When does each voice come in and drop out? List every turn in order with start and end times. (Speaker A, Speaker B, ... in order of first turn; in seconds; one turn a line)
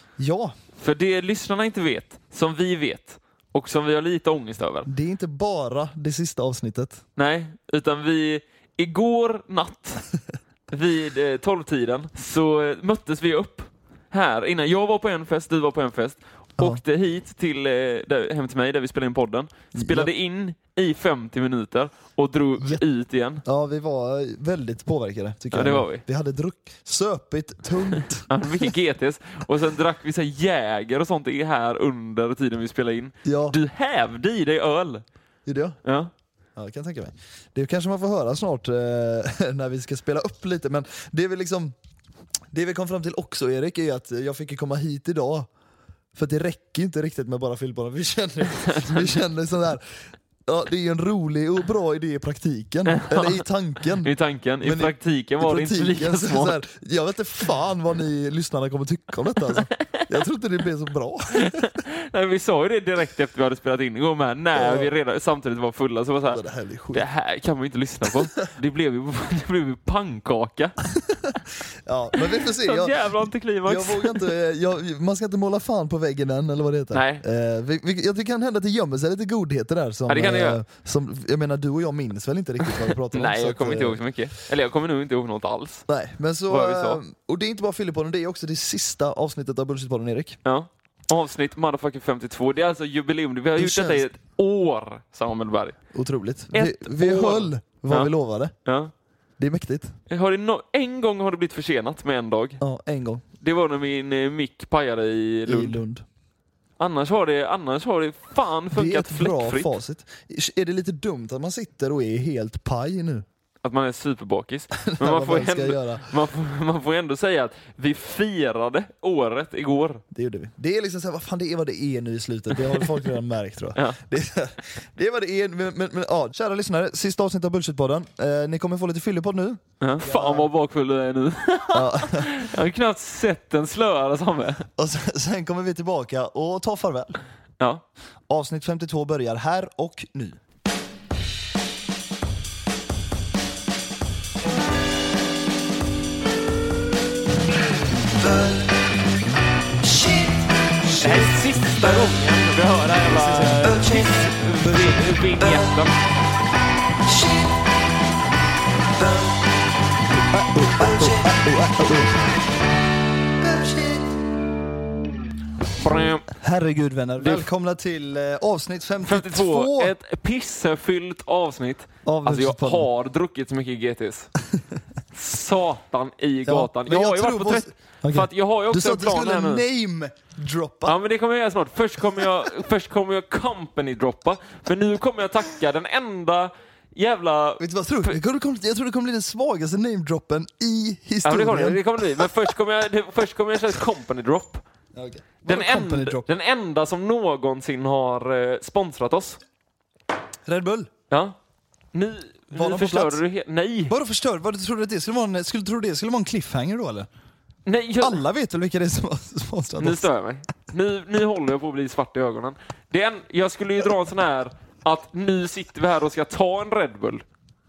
Speaker A: 0.2-0.5
Speaker B: 0.8-4.9
Speaker A: 4.8-7.0
Speaker B: 7.2-10.0
Speaker B: 10.7-23.4
Speaker A: 19.7-20.1
Speaker A: 23.4-28.7
Speaker B: 25.5-26.0
Speaker B: 28.2-35.0
Speaker A: 33.2-33.6
Speaker A: 35.4-35.8
Speaker B: 35.8-36.1
Speaker A: 36.5-41.7
Speaker A: 42.5-45.5
Speaker A: 46.1-61.7
Speaker B: 48.6-49.1
Speaker B: 52.9-53.4
Speaker B: 54.0-56.6
Speaker B: 61.4-66.4
Speaker A: 64.5-64.9
Speaker A: 66.3-67.0
Speaker B: 66.9-70.8
Speaker A: 71.0-84.0
Speaker B: 72.1-74.3
Speaker B: 76.9-77.2
Speaker B: 80.1-80.6
Speaker B: 82.8-85.9
Speaker A: 85.9-90.4
Speaker B: 86.5-87.0
Speaker B: 90.4-95.8
Speaker A: 93.6-94.1
Speaker A: 95.9-98.5
Speaker B: 96.5-98.1
Speaker B: 98.6-98.9
Speaker A: 99.4-99.9
Speaker B: 100.1-102.6
Speaker A: 102.6-103.2
Speaker B: 103.4-105.8
Speaker A: 105.5-106.0
Speaker B: 106.8-109.7
Speaker A: 108.7-113.2
Speaker B: 113.6-120.0
Speaker A: 114.8-116.0
Speaker A: 120.1-130.5
Speaker B: 129.8-134.7
Speaker A: 131.7-132.4
Speaker A: 134.8-137.2
Speaker A: 138.3-140.4
Speaker B: 150.9-155.9
Speaker A: 152.9-155.0
Speaker A: 160.2-162.3
Speaker A: 163.4-164.1
Speaker B: 165.8-166.3
Speaker A: 166.3-169.9
Speaker B: 167.2-167.5
Speaker B: 169.0-174.3
Speaker A: 172.0-172.9
Speaker B: 175.1-179.6
Speaker A: 176.4-181.0
Speaker B: 180.8-188.2
Speaker A: 187.6-192.3
Speaker B: 191.2-194.6
Speaker A: 194.9-196.2
Speaker B: 195.4-199.4
Speaker A: 200.4-200.9
Speaker B: 201.1-201.3
Speaker B: 201.9-203.9
Speaker A: 202.5-203.2
Speaker A: 203.9-207.1
Speaker B: 207.7-208.2
Speaker A: 208.0-210.1
Speaker B: 209.8-217.2